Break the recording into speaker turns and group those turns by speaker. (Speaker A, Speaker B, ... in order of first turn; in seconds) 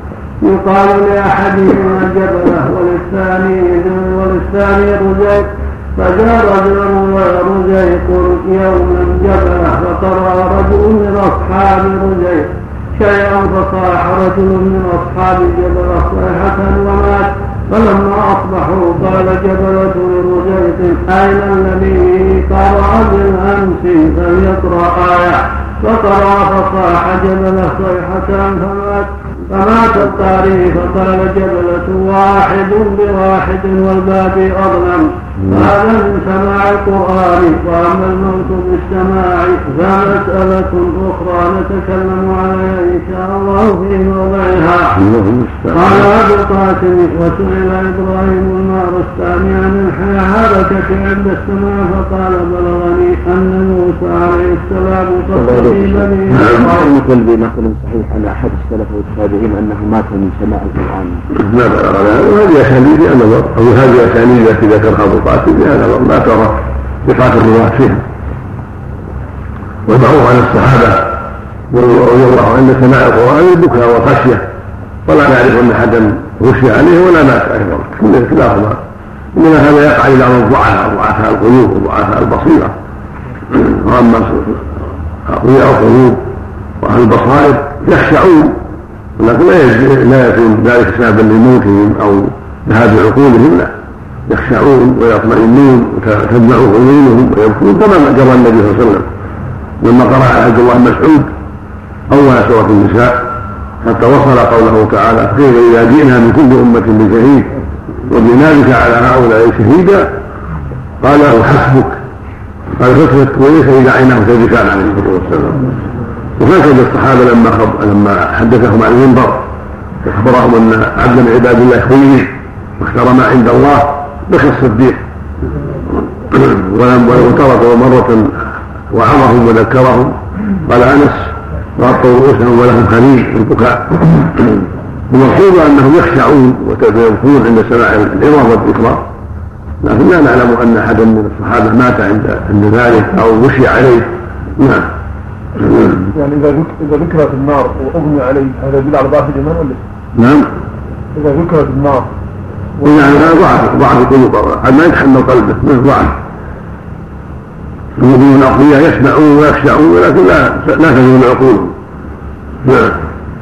Speaker A: 0.4-45.0, 45.7-56.9
Speaker B: 44.9-46.1, 56.3-56.6, 61.3-68.0, 69.9-71.2, 71.7-74.4, 75.0-78.8, 79.3-82.7, 83.5-86.2, 86.8-88.6, 89.2-93.7, 94.3-99.1, 99.8-101.3, 102.1-103.3, 103.8-107.5, 108.1-110.1, 111.0-112.0, 112.8-115.7, 116.4-119.5, 120.0-125.0, 126.2-139.1, 139.8-144.9, 145.6-146.0, 150.1-150.5, 152.8-156.2, 158.0-161.8, 162.6-163.0
Speaker C: 55.5-55.8, 56.4-61.2
Speaker D: 146.1-149.8, 151.2-152.1